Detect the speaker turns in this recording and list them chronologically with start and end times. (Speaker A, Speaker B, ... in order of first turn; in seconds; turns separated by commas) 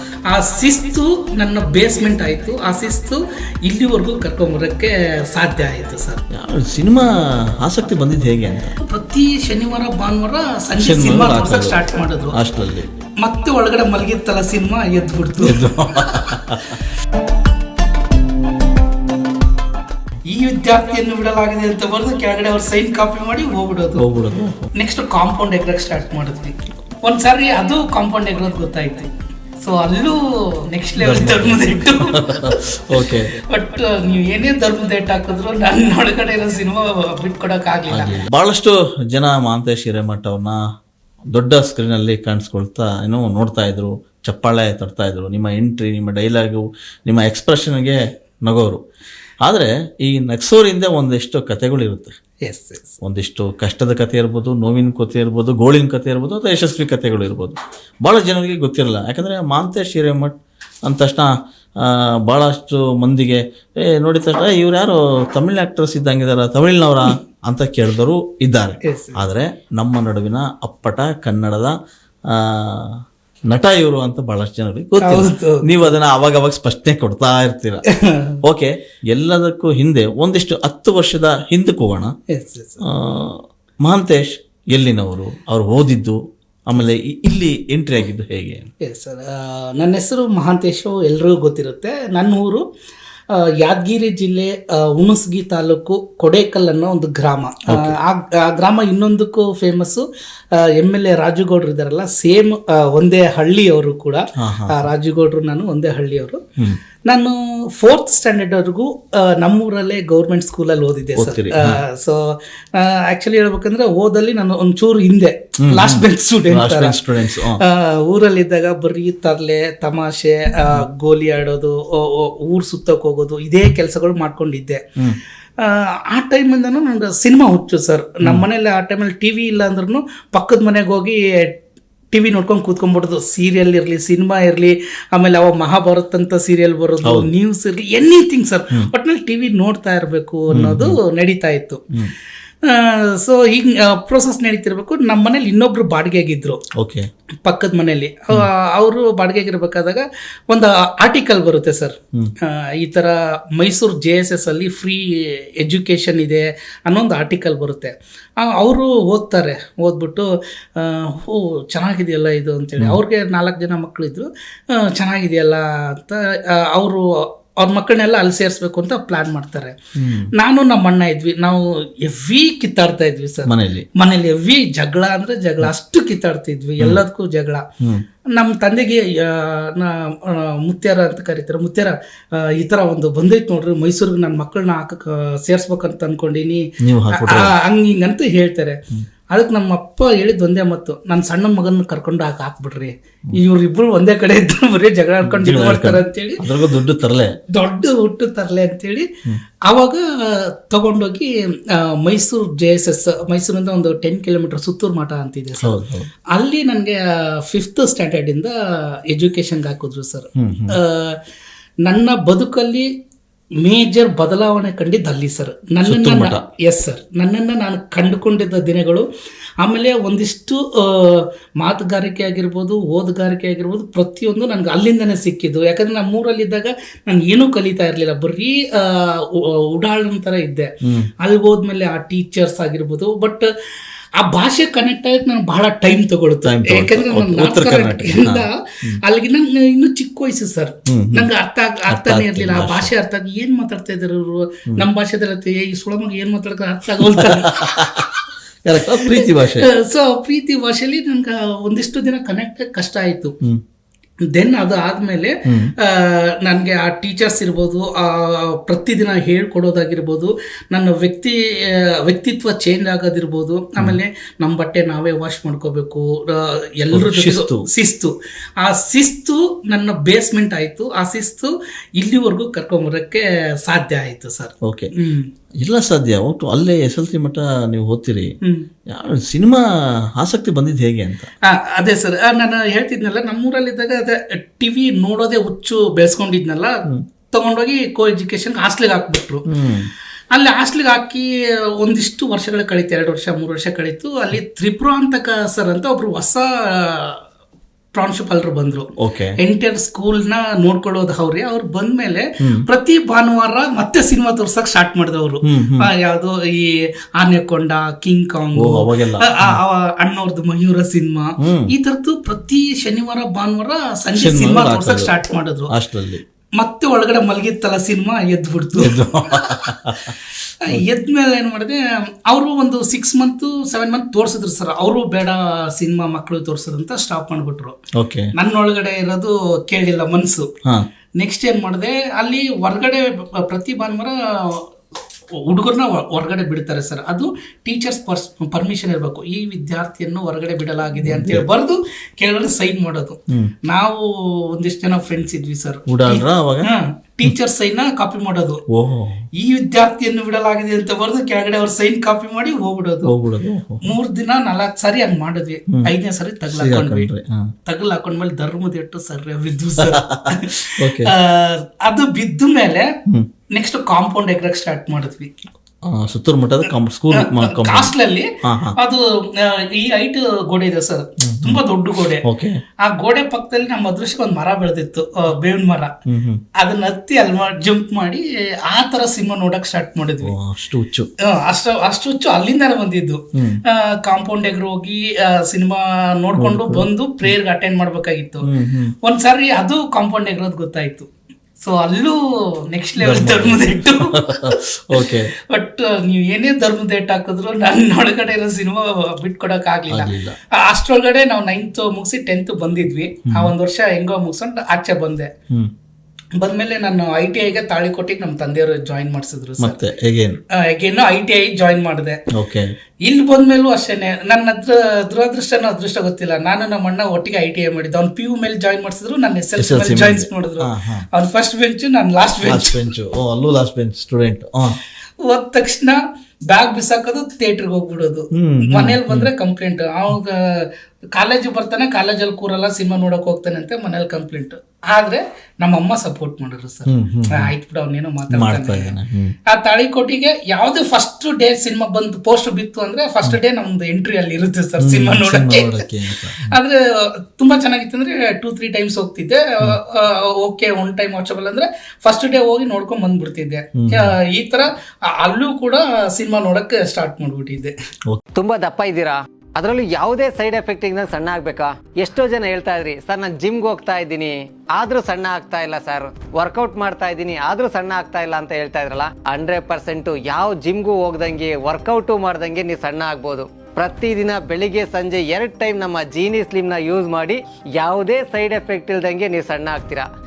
Speaker A: 0.3-6.2, Speaker B: 6.3-8.7, Speaker A: 8.8-12.4, Speaker B: 10.8-11.8, Speaker B: 12.3-12.9, Speaker A: 13.2-15.6, Speaker B: 15.4-16.8, Speaker A: 20.3-24.0, Speaker B: 24.0-24.7, Speaker A: 24.8-29.1, Speaker A: 29.6-38.2, Speaker B: 31.0-33.3, Speaker B: 37.9-40.6, Speaker B: 41.3-48.8, Speaker B: 49.4-52.1, Speaker A: 52.4-53.0, Speaker B: 53.0-60.3, Speaker B: 60.9-61.3, Speaker B: 61.8-71.7, Speaker A: 68.8-69.2, Speaker B: 72.3-72.9, Speaker B: 73.5-77.8, Speaker A: 75.0-75.9, Speaker A: 78.0-78.3, Speaker B: 78.4-82.1, Speaker A: 82.3-82.8, Speaker B: 82.9-88.6, Speaker A: 88.8-92.6, Speaker A: 93.3-100.0, Speaker B: 97.7-97.9, Speaker A: 100.6-106.4, Speaker B: 104.4-104.9, Speaker A: 107.1-112.2, Speaker B: 111.2-111.8, Speaker A: 112.7-124.8, Speaker B: 115.6-117.6, Speaker A: 125.6-131.6, Speaker A: 132.1-141.8, Speaker B: 140.5-141.0, Speaker A: 142.7-146.6, Speaker B: 146.8-147.0, Speaker A: 147.4-167.0, Speaker A: 167.6-169.7, Speaker B: 170.0-170.3, Speaker A: 170.3-177.6, Speaker B: 173.4-173.9, Speaker A: 178.3-188.8, Speaker B: 186.8-187.5, Speaker A: 189.3-196.4, Speaker B: 195.2-197.3, Speaker A: 197.5-199.1, Speaker A: 199.7-205.8, Speaker B: 205.6-206.1, Speaker A: 206.3-208.5, Speaker A: 209.1-211.2, Speaker B: 210.4-210.8, Speaker A: 211.8-212.9, Speaker A: 213.6-219.1, Speaker B: 215.8-216.4, Speaker A: 219.6-230.7, Speaker B: 230.8-231.1, Speaker A: 231.2-233.5, Speaker A: 234.2-238.5, Speaker B: 236.4-239.0, Speaker A: 239.0-248.1, Speaker B: 240.9-241.3, Speaker B: 241.9-242.9, Speaker B: 247.2-248.1, Speaker B: 248.6-249.7, Speaker A: 248.9-253.3, Speaker A: 254.3-275.3, Speaker B: 255.5-255.7, Speaker B: 266.9-267.6, Speaker B: 275.6-278.3, Speaker B: 278.9-279.6, Speaker B: 280.2-281.3, Speaker A: 281.5-286.7, Speaker A: 287.3-289.4, Speaker B: 289.5-289.9, Speaker A: 290.3-291.3, Speaker A: 291.8-297.2, Speaker A: 297.9-298.9, Speaker B: 299.0-299.3, Speaker A: 299.4-315.7, Speaker B: 305.4-305.9, Speaker B: 308.6-309.6, Speaker B: 311.4-311.7, Speaker B: 314.1-315.1, Speaker B: 315.7-316.2, Speaker A: 316.6-319.5, Speaker B: 318.8-320.1, Speaker A: 320.6-327.8, Speaker B: 328.0-328.3, Speaker A: 328.4-330.5, Speaker A: 331.2-334.6, Speaker A: 335.4-348.6, Speaker B: 341.0-341.4, Speaker B: 345.9-346.7, Speaker B: 348.7-349.2, Speaker A: 349.4-353.1, Speaker B: 353.1-353.9, Speaker A: 353.8-357.1, Speaker B: 356.5-357.4, Speaker A: 357.7-362.9, Speaker B: 359.9-361.1, Speaker A: 363.5-365.3, Speaker B: 365.9-367.9, Speaker A: 367.1-372.2, Speaker B: 368.4-368.7, Speaker B: 371.2-371.6, Speaker B: 372.2-372.6, Speaker A: 372.8-375.9, Speaker B: 376.1-376.4, Speaker A: 376.6-380.3, Speaker B: 380.2-381.1, Speaker A: 381.2-388.5, Speaker B: 383.4-383.6, Speaker B: 386.4-387.3, Speaker B: 388.4-388.9, Speaker A: 389.0-392.2, Speaker A: 392.7-405.3, Speaker B: 393.0-395.3, Speaker B: 399.9-400.4, Speaker B: 403.3-403.5, Speaker A: 406.4-409.8, Speaker B: 409.6-410.4, Speaker A: 410.6-412.2, Speaker B: 412.3-412.7, Speaker A: 413.0-422.8, Speaker B: 419.6-421.1, Speaker B: 422.4-424.8, Speaker A: 425.2-438.9, Speaker B: 428.3-429.3, Speaker B: 436.9-437.5, Speaker B: 438.3-439.3, Speaker A: 439.5-445.8, Speaker B: 444.8-446.6, Speaker A: 446.4-457.7, Speaker B: 453.8-454.1, Speaker C: 458.3-480.1